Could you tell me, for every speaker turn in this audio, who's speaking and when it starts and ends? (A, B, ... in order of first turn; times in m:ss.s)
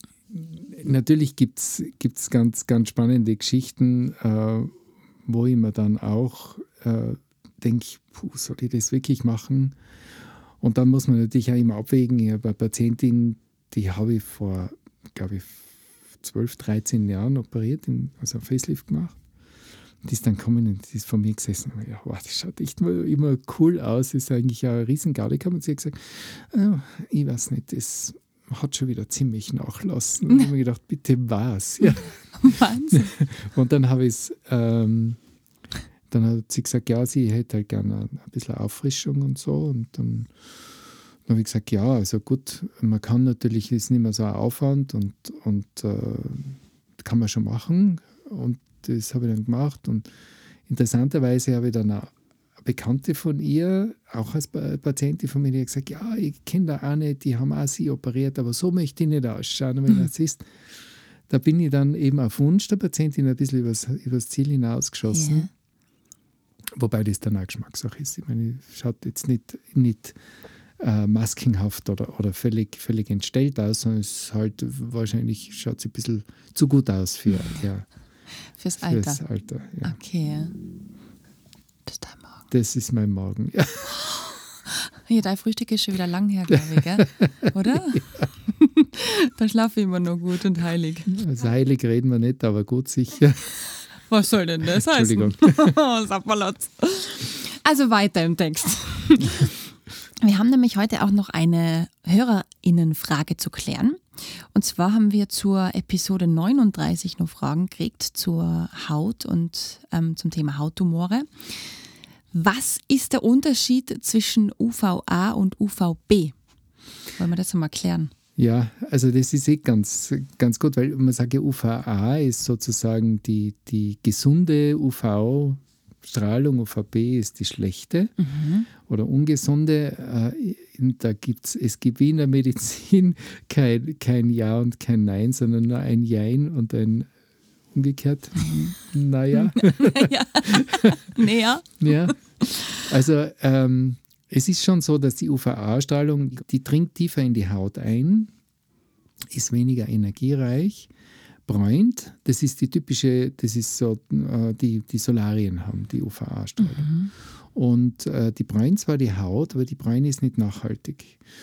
0:00.3-0:09.8 A
0:10.6-0:15.7 A
0:16.2-0:19.2 A
0:20.0-0:32.2 A
0:31.9-0:33.1 B
0:32.9-0:35.2 A
0:36.1-0:40.3 A
0:41.2-0:50.1 A
0:50.7-1:00.5 A
1:01.3-1:05.5 A
1:05.1-1:05.5 B
1:06.8-1:10.2 A
1:10.8-1:17.9 A
1:18.6-1:19.2 B
1:18.8-1:20.0 A
1:19.8-1:20.6 B
1:21.9-1:22.3 B
1:22.5-1:24.0 A
1:23.9-1:31.2 B
1:27.0-1:27.5 A
1:31.1-1:33.6 A
1:34.1-1:39.6 B
1:34.7-1:35.8 A
1:40.2-1:51.8 B
1:52.3-1:56.3 B
1:57.2-1:58.1 B
1:58.4-2:08.1 A
2:08.2-2:08.7 B
2:08.8-2:17.1 A
2:17.7-2:21.2 A
2:18.4-2:18.7 B
2:19.3-2:22.8 B
2:21.8-2:22.2 A
2:22.8-2:28.3 A
2:29.3-2:30.9 A
2:31.5-2:36.9 A
2:36.6-2:37.1 B
2:37.5-2:41.2 A